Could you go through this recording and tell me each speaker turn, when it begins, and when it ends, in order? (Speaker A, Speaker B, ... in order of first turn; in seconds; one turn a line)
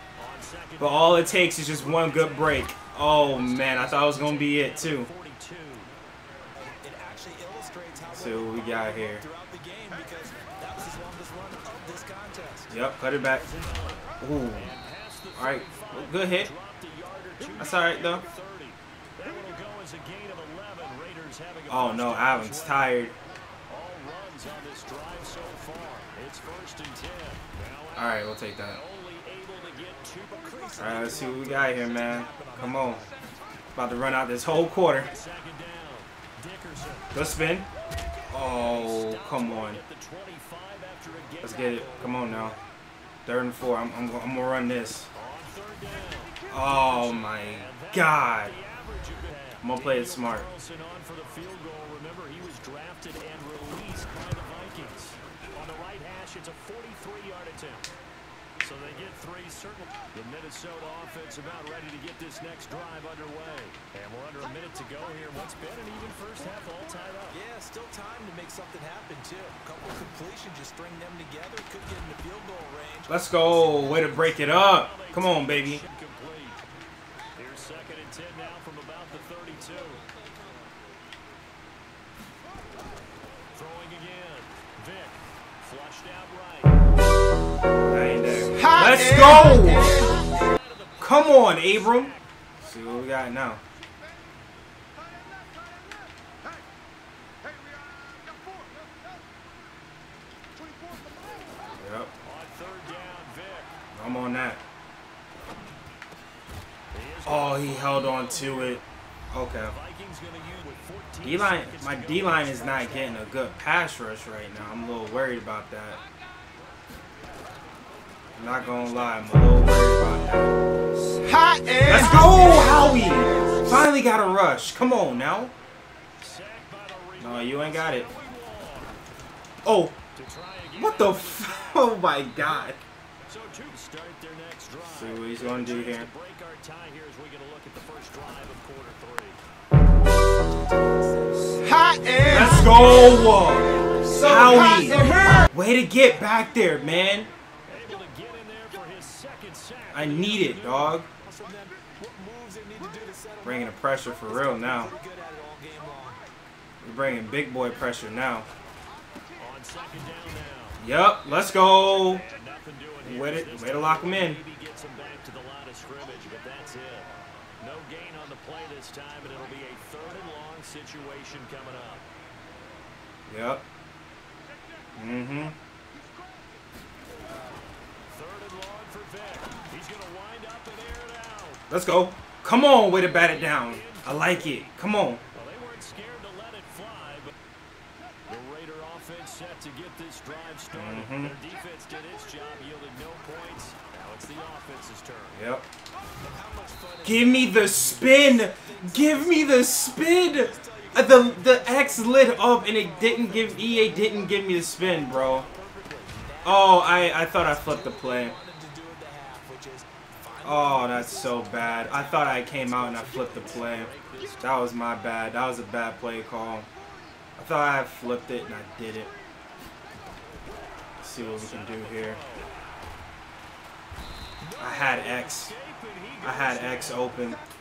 Speaker A: 0.2-5.9
Speaker B: 0.8-5.1
Speaker C: 6.5-12.7
Speaker B: 8.1-9.2
Speaker B: 12.7-13.4
Speaker A: 13.1-23.0
Speaker B: 14.2-14.7
Speaker B: 15.3-16.5
Speaker B: 17.6-18.2
Speaker B: 21.7-23.1
Speaker A: 23.7-30.7
Speaker B: 27.9-28.8
Speaker C: 30.3-33.1
Speaker B: 30.8-33.0
Speaker B: 33.7-35.1
Speaker A: 35.0-37.1
Speaker B: 37.1-37.7
Speaker B: 38.3-39.8
Speaker A: 38.3-42.6
Speaker B: 41.4-42.5
Speaker B: 43.2-45.1
Speaker A: 45.1-57.9
Speaker B: 46.5-48.5
Speaker B: 49.6-50.5
Speaker A: 58.6-67.4
Speaker C: 67.3-74.0
Speaker B: 73.1-75.8
Speaker A: 73.6-76.6
Speaker A: 77.4-80.0
Speaker A: 83.5-86.8
Speaker B: 87.8-90.1
Speaker D: 88.6-89.6
Speaker A: 89.6-92.2
Speaker B: 91.0-93.6
Speaker B: 101.8-102.1
Speaker A: 102.2-103.7
Speaker B: 103.9-104.6
Speaker A: 106.9-108.7
Speaker B: 107.2-109.7
Speaker A: 109.7-113.3
Speaker B: 111.2-116.0
Speaker B: 118.4-120.6
Speaker D: 121.2-122.9
Speaker B: 121.8-125.5
Speaker A: 126.2-128.9
Speaker B: 127.2-128.1
Speaker B: 129.6-129.9
Speaker A: 130.1-131.8
Speaker B: 130.8-132.8
Speaker A: 133.3-139.4
Speaker B: 134.9-136.1
Speaker C: 140.8-141.6
Speaker D: 141.6-142.9
Speaker B: 142.3-147.3
Speaker D: 144.0-145.5
Speaker A: 147.7-151.0
Speaker B: 149.9-151.1
Speaker C: 151.2-156.2
Speaker B: 153.4-154.9
Speaker B: 156.8-158.5
Speaker A: 159.4-160.8
Speaker B: 160.8-162.2
Speaker A: 161.5-172.0
Speaker B: 163.0-164.4
Speaker B: 173.3-173.6
Speaker B: 175.0-175.6
Speaker A: 178.1-181.6
Speaker B: 181.7-185.2
Speaker A: 183.0-184.6
Speaker A: 185.3-187.3
Speaker A: 188.3-195.4
Speaker B: 190.7-191.3
Speaker B: 195.3-195.6
Speaker C: 196.1-204.4
Speaker B: 197.0-205.5
Speaker C: 205.0-213.5
Speaker B: 206.4-208.3
Speaker B: 210.4-213.9
Speaker A: 212.4-214.6
Speaker B: 214.4-216.7
Speaker B: 217.4-219.1
Speaker B: 221.0-222.2
Speaker A: 221.1-222.5
Speaker C: 224.4-225.0
Speaker B: 224.6-225.5
Speaker A: 224.8-227.3
Speaker B: 226.2-227.4